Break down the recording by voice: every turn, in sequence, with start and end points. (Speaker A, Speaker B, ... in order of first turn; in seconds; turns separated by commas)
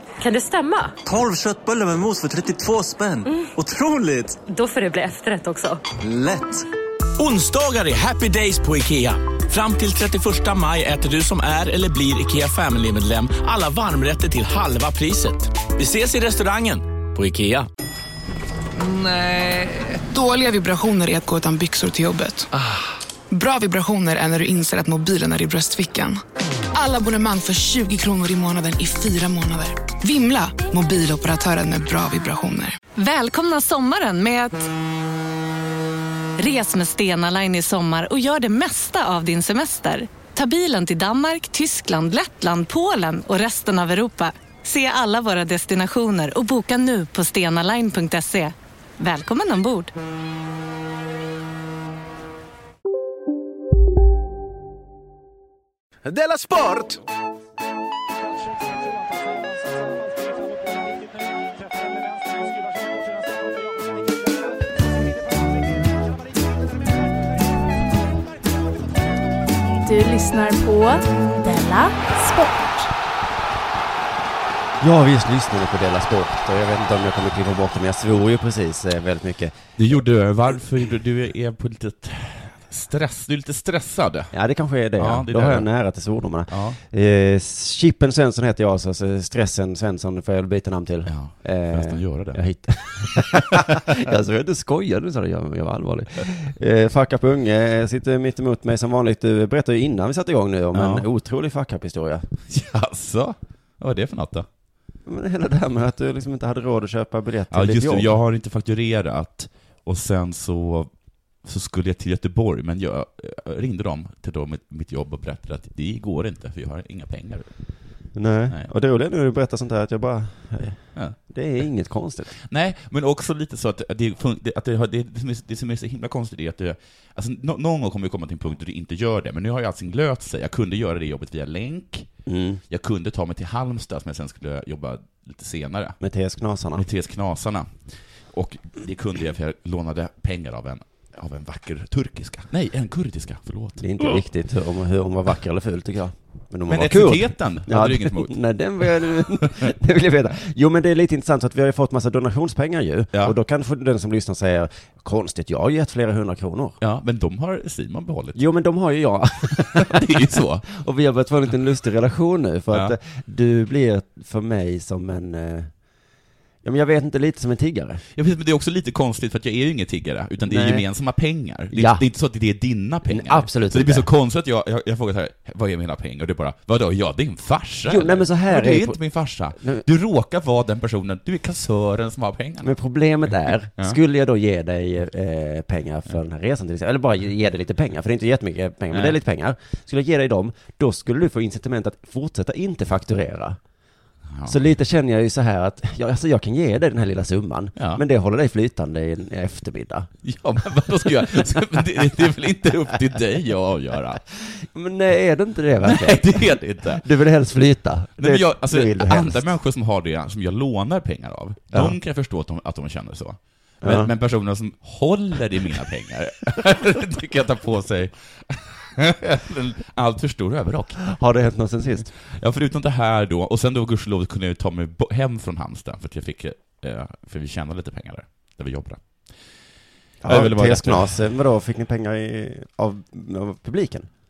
Speaker A: 0.2-1.0, Speaker B: 1.0-4.4, Speaker A: 4.5-5.9, Speaker B: 5.9-6.7, Speaker C: 7.2-17.7, Speaker D: 20.1-22.5, Speaker D: 23.3-26.2, Speaker D: 26.7-32.8, Speaker E: 33.0-34.7, Speaker E: 36.4-49.9, Speaker F: 69.8-72.9, Speaker G: 74.8-79.6, Speaker H: 79.8-84.3, Speaker G: 84.3-102.3, Speaker H: 85.0-85.7, Speaker H: 86.5-86.8, Speaker H: 91.1-92.4, Speaker H: 93.1-93.6, Speaker H: 100.7-101.1, Speaker H: 102.5-104.5, Speaker G: 105.1-108.2, Speaker H: 107.5-110.9, Speaker H: 111.4-117.5, Speaker G: 118.2-122.3, Speaker H: 122.4-132.1, Speaker G: 132.3-132.6, Speaker H: 132.7-136.0, Speaker G: 136.0-136.8, Speaker H: 136.8-137.8, Speaker H: 138.3-144.1, Speaker G: 143.8-156.8, Speaker H: 146.7-148.4, Speaker H: 156.8-158.4, Speaker G: 158.3-165.7, Speaker H: 159.6-160.7, Speaker G: 166.6-168.0, Speaker H: 168.2-182.7, Speaker G: 170.5-170.9, Speaker G: 171.7-172.1, Speaker G: 173.1-174.1, Speaker G: 177.9-179.0, Speaker G: 182.6-193.6, Speaker H: 183.3-184.0, Speaker H: 194.3-194.6, Speaker G: 194.5-200.1, Speaker H: 197.8-198.0, Speaker H: 200.2-204.2, Speaker G: 204.4-209.5, Speaker H: 205.8-207.0, Speaker H: 208.2-221.0, Speaker G: 213.8-214.1, Speaker G: 221.1-222.1, Speaker H: 222.2-229.0, Speaker G: 230.2-234.1, Speaker H: 230.3-231.2